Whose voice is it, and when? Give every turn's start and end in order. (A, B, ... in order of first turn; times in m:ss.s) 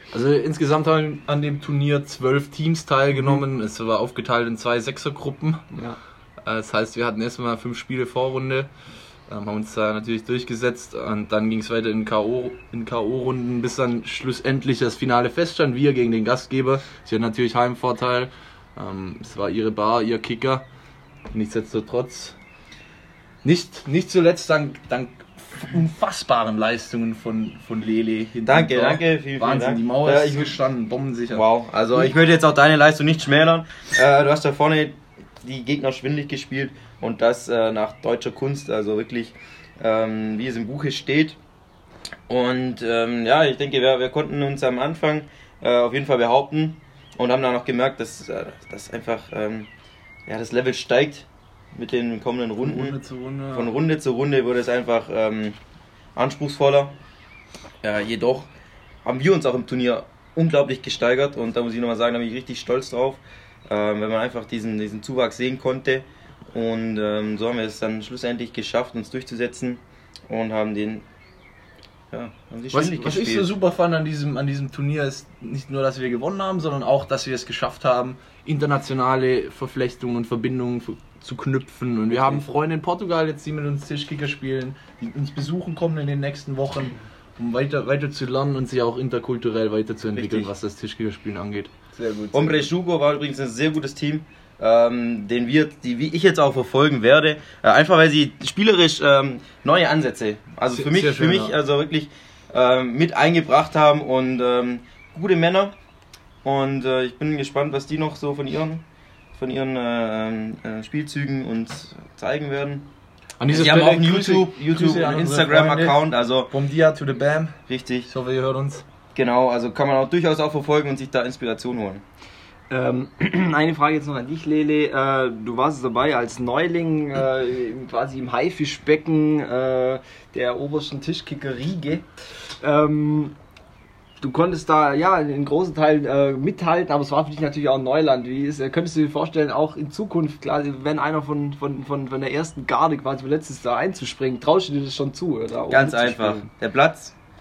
0:00.1-0:05.6 A
0:05.7-0:06.0 B
0:06.4-0:08.7 A
0:09.3-0:20.6 A
0:21.3-0:22.4 A
0:23.4-0:31.4 A
0:28.5-0:30.6 C
0:31.3-0:41.4 C
0:42.3-0:49.7 C
0:50.3-0:53.0 C
0:52.6-0:53.7 A
0:53.5-0:55.6 C
0:56.2-0:57.0 C
0:57.8-0:58.5 C
0:59.0-1:11.0 C
1:12.1-1:13.5 C
1:12.7-1:31.7 A
1:30.2-1:30.5 C
1:32.0-1:32.6 B
1:32.3-1:45.7 C
1:40.7-1:41.6 A
1:46.4-1:48.8 C
1:49.4-1:52.9 C
1:53.4-1:57.6 A
1:53.5-1:56.5 C
1:57.7-1:58.1 C
1:58.1-1:58.8 A
1:59.1-2:02.0 C
2:02.7-2:12.1 B
2:12.6-2:13.4 B
2:14.2-2:26.5 B
2:25.7-2:27.1 C